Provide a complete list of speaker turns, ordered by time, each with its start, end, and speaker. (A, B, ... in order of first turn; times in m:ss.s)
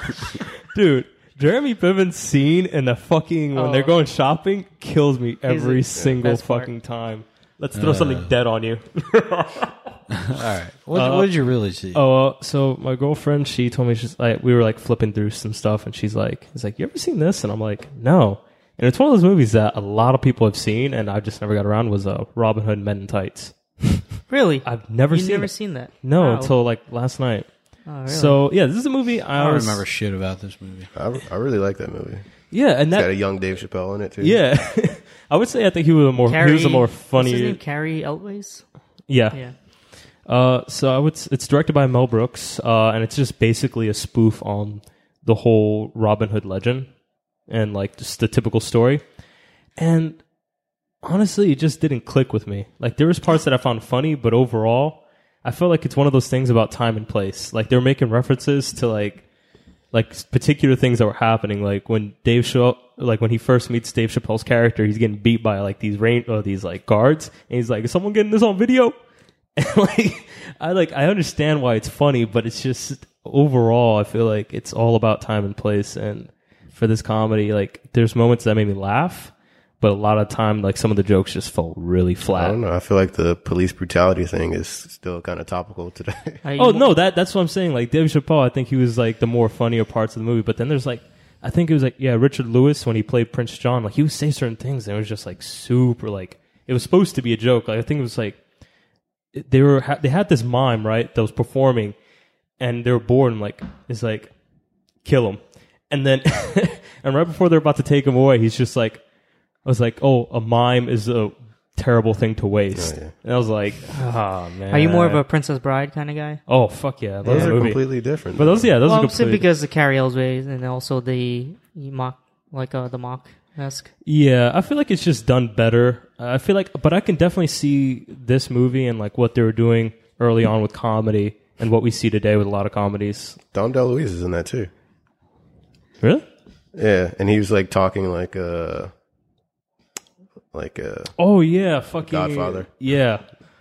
0:00.7-0:10.0 A
0:03.5-0:04.0 B
0:05.5-0:06.7 B
0:07.7-0:08.3 C
0:10.1-0:12.0 C
0:10.9-0:11.3 A
0:11.9-0:24.0 A
0:24.3-0:26.5 B
0:24.6-0:29.8 A
0:27.8-0:28.4 B
0:29.4-0:30.9 C
0:30.9-0:34.4 D
0:32.5-0:33.5 A
0:34.2-0:37.6 A
0:36.2-0:38.6 B
0:39.1-0:46.9 A
0:47.5-0:49.0 A
0:49.8-0:50.2 A
0:51.0-0:59.2 A
0:59.9-1:08.9 A
1:09.6-1:22.6 A
1:22.3-1:26.4 D
1:26.4-1:26.9 B
1:26.6-1:38.4 A
1:39.3-1:41.9 A
1:42.6-1:44.3 A
1:45.0-1:49.0 A
1:49.6-1:55.2 A
1:52.7-1:53.1 D
1:54.7-1:56.4 B
1:56.5-1:59.4 A
1:57.2-1:58.7 D
1:58.8-2:03.9 B
2:04.0-2:13.4 A
2:13.5-2:14.7 D
2:16.7-2:18.9 D
2:20.5-2:21.1 D
2:21.2-2:23.3 A
2:22.1-2:22.7 D